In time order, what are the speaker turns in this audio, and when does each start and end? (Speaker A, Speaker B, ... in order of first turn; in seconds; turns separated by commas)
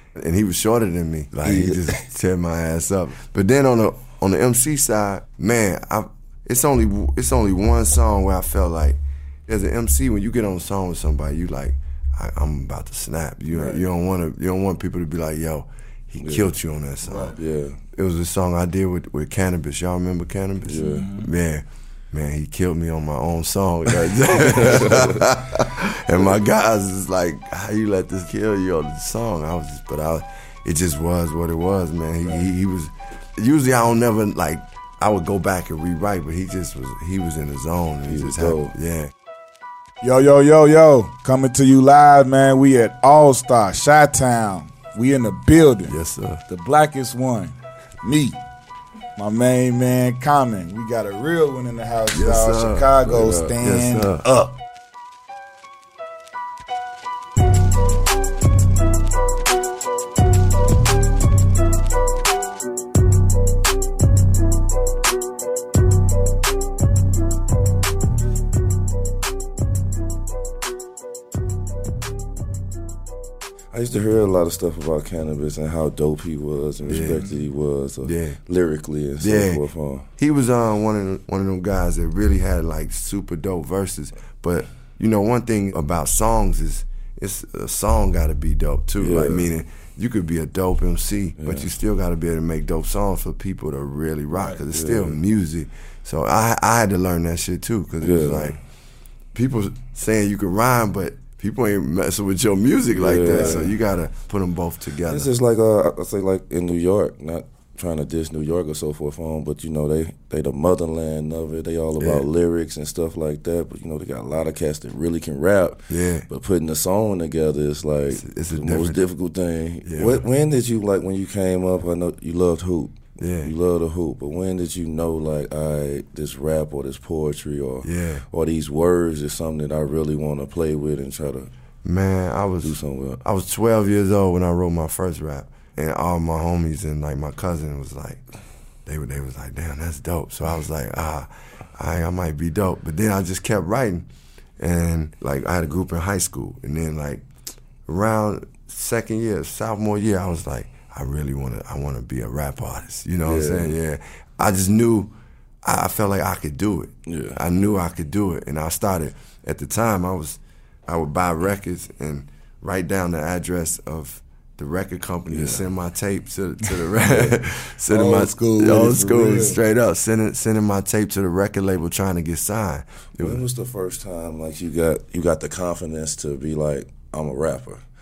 Speaker A: 0.1-17.3, Speaker B: 1.4-2.0, Speaker B: 16.2-16.5, Speaker C: 17.0-17.3, Speaker B: 17.3-17.8, Speaker A: 17.9-39.1, Speaker B: 20.7-21.1, Speaker C: 20.8-21.3, Speaker B: 24.0-25.3, Speaker B: 38.1-38.7, Speaker C: 40.0-45.9, Speaker A: 45.9-46.4, Speaker C: 46.5-48.4, Speaker C: 49.2-54.5, Speaker A: 52.1-52.9, Speaker B: 53.0-53.5, Speaker A: 53.6-54.2, Speaker B: 73.7-80.0, Speaker A: 76.9-77.2, Speaker A: 78.0-78.4, Speaker A: 79.2-79.6, Speaker A: 80.2-98.6, Speaker B: 89.0-89.5, Speaker B: 91.4-91.7, Speaker B: 94.7-95.2, Speaker B: 98.0-98.6, Speaker A: 99.3-105.3, Speaker B: 102.9-103.7, Speaker B: 105.1-131.5, Speaker A: 112.0-112.2, Speaker A: 115.9-116.2, Speaker A: 118.1-119.0, Speaker A: 119.8-120.2, Speaker A: 123.2-123.5, Speaker A: 127.8-128.2, Speaker A: 131.8-138.2, Speaker B: 132.6-133.2, Speaker A: 138.8-144.1, Speaker A: 144.6-147.2, Speaker A: 147.9-155.1, Speaker B: 153.2-153.7, Speaker A: 155.6-173.4, Speaker B: 157.1-157.4, Speaker B: 165.3-165.7, Speaker C: 167.9-169.6, Speaker B: 173.2-177.8